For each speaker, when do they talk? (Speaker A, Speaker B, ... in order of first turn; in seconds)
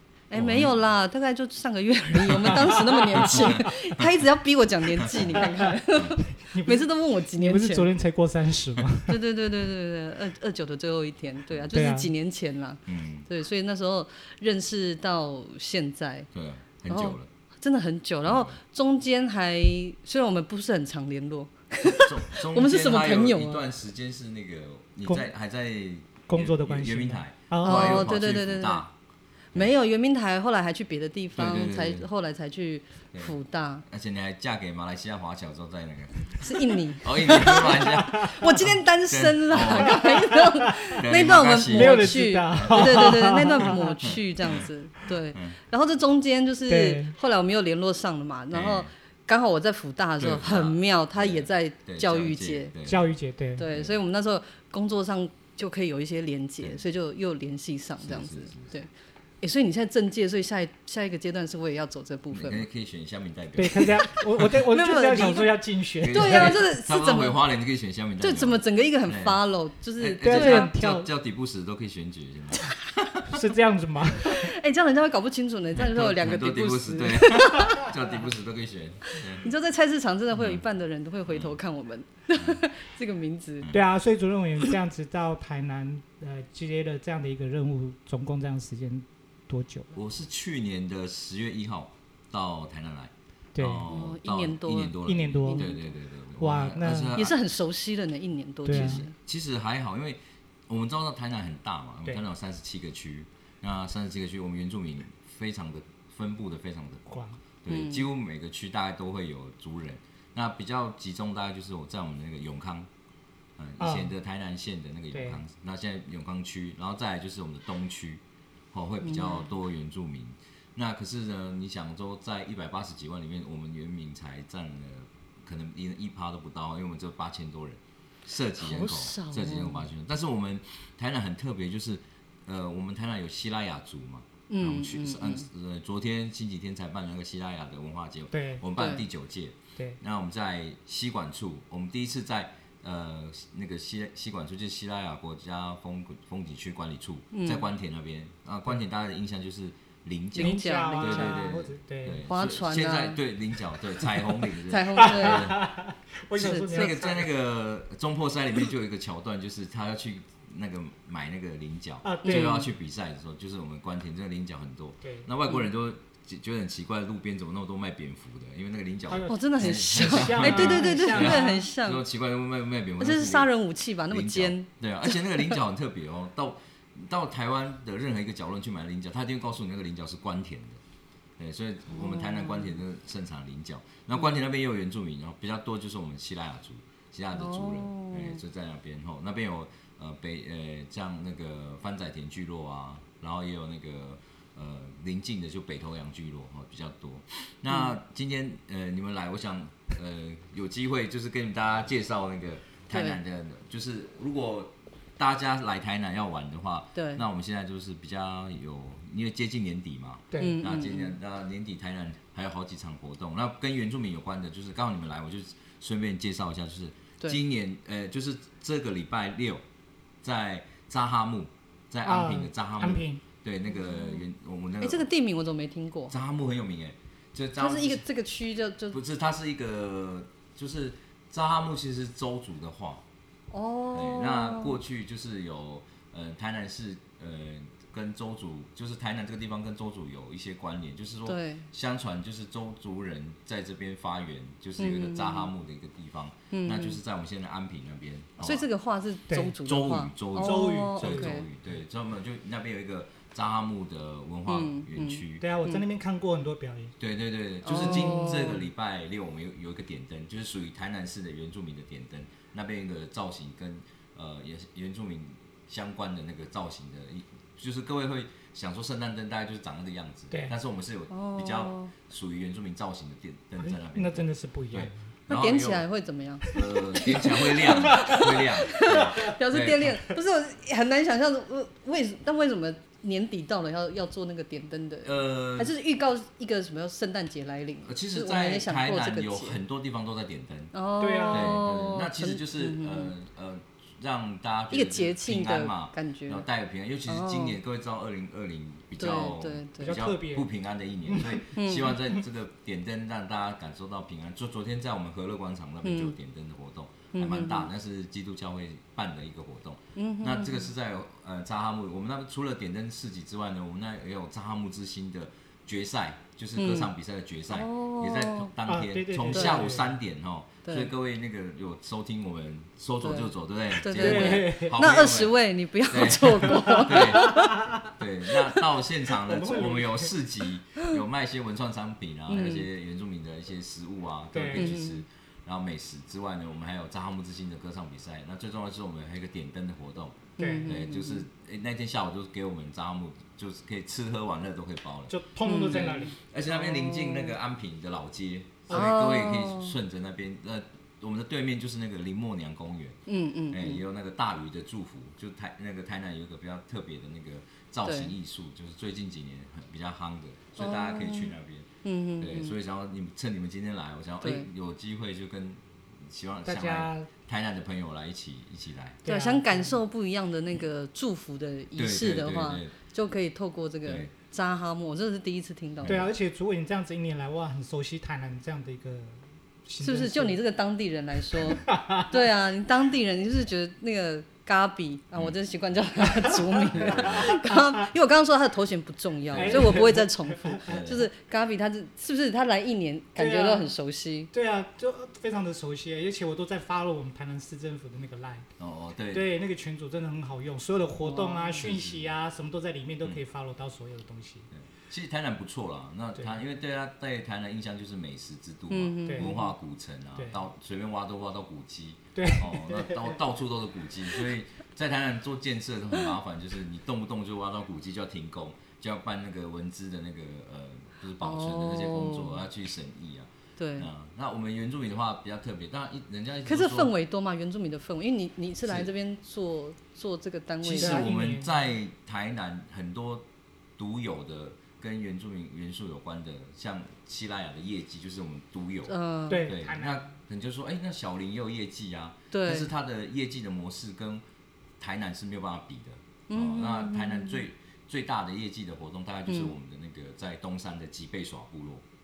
Speaker A: 0.3-7.9, 9.1-16.3, 16.9-23.6, 27.6-28.8, 29.5-33.8, 36.4-52.7, 53.6-58.9, 59.4-62.6, 64.7-67.4, 68.2-70.7, 74.2-78.0, 79.1-83.7, 93.8-95.9, 97.1-99.1, 107.7-108.0, 119.0-119.5, 128.6-129.9, 134.5-135.4, 138.7-139.0, 147.3-147.7, 150.3-151.5, 152.3-153.2, 154.5-155.6, 156.3-157.0, 162.2-162.6, 169.3-172.0, 173.0-175.6, 181.9-182.7, 187.3-188.4, 197.7-197.9, 202.9-203.2, 206.9-207.2, 210.4-211.2, 223.7-224.2, 224.8-226.2, 227.6-229.0, 233.5-234.8, 241.3-241.7, 244.8-245.5, 246.5-247.0, 248.4-251.4, 254.5-255.8, 257.6-258.6, 271.1-271.9, 275.3-289.6, 290.7-293.1, 294.7-296.4, 297.1-297.6, 299.0-300.0, 301.5-302.0, 305.8-306.1, 307.1-307.7, 309.9-310.7, 316.6-316.9, 317.5-318.5, 319.3-319.7, 320.6-320.9, 323.0-327.6, 332.3-332.7, 334.5-335.0, 340.4-341.2, 345.4-347.4, 348.7-349.7, 353.1-353.8, 357.9-358.1, 360.6-362.5, 364.2-364.5, 369.1-376.0, 379.8-394.3, 401.0-401.7, 408.7-409.5, 421.2-422.4, 423.6-423.9, 426.4-431.0, 438.9-439.5, 442.3-442.7, 446.3-447.4, 449.3-449.5
Speaker B: 0.3-0.8, 2.2-4.1, 5.0-5.4, 12.9-13.3, 16.3-17.3, 18.2-18.6, 21.9-28.9, 31.3-32.1, 33.9-40.1, 40.9-43.4, 44.0-44.7, 48.5-48.9, 50.2-53.1, 53.7-54.0, 58.0-58.8, 62.3-64.1, 66.0-69.4, 70.0-73.3, 75.7-79.5, 80.3-80.6, 81.3-81.6, 89.9-97.4, 98.7-107.0, 107.6-112.9, 113.6-155.6, 156.4-173.5, 174.1-180.8, 181.4-219.6, 220.2-225.1, 226.1-228.1, 228.9-233.0, 233.9-248.7, 249.6-255.4, 257.0-275.8, 276.5-280.0, 285.0-285.7, 287.8-290.7, 291.3-325.4, 325.9-345.1, 345.7-353.0, 353.5-361.7, 362.2-369.0, 371.8-372.7, 373.8-374.1, 375.8-376.1, 386.7-387.3, 389.3-389.9, 390.6-391.1, 398.6-399.3, 401.6-402.1, 404.5-426.9, 428.6-428.9, 430.6-444.2, 444.8-451.8
Speaker C: 2.8-3.3, 5.2-9.2, 11.7-12.1, 26.3-28.1, 38.0-38.5, 40.0-40.7, 41.7-44.0, 46.7-47.1, 52.8-53.6, 63.5-66.6, 70.2-71.1, 73.3-74.5, 83.7-89.9, 93.5-93.9, 95.0-95.7, 96.4-97.2, 98.6-99.0, 107.1-107.4, 113.8-114.1, 115.1-115.4, 138.3-138.6, 150.3-152.2, 155.0-157.3, 162.0-162.7, 165.0-165.3, 169.1-171.7, 210.3-210.6, 222.0-223.2, 250.4-251.4, 255.4-256.9, 273.6-275.0, 277.8-278.2, 291.0-291.6, 299.8-300.5, 301.1-301.4, 318.6-319.9, 323.9-324.8, 326.3-327.9, 329.2-330.1, 334.3-334.7, 340.4-340.7, 345.1-346.1, 366.4-367.1, 369.0-369.8, 375.9-380.4, 381.3-382.1, 386.1-387.9, 389.4-390.6, 393.1-393.7, 394.3-398.4, 399.1-404.5, 409.1-409.3, 412.1-413.2, 430.7-431.5, 439.3-440.1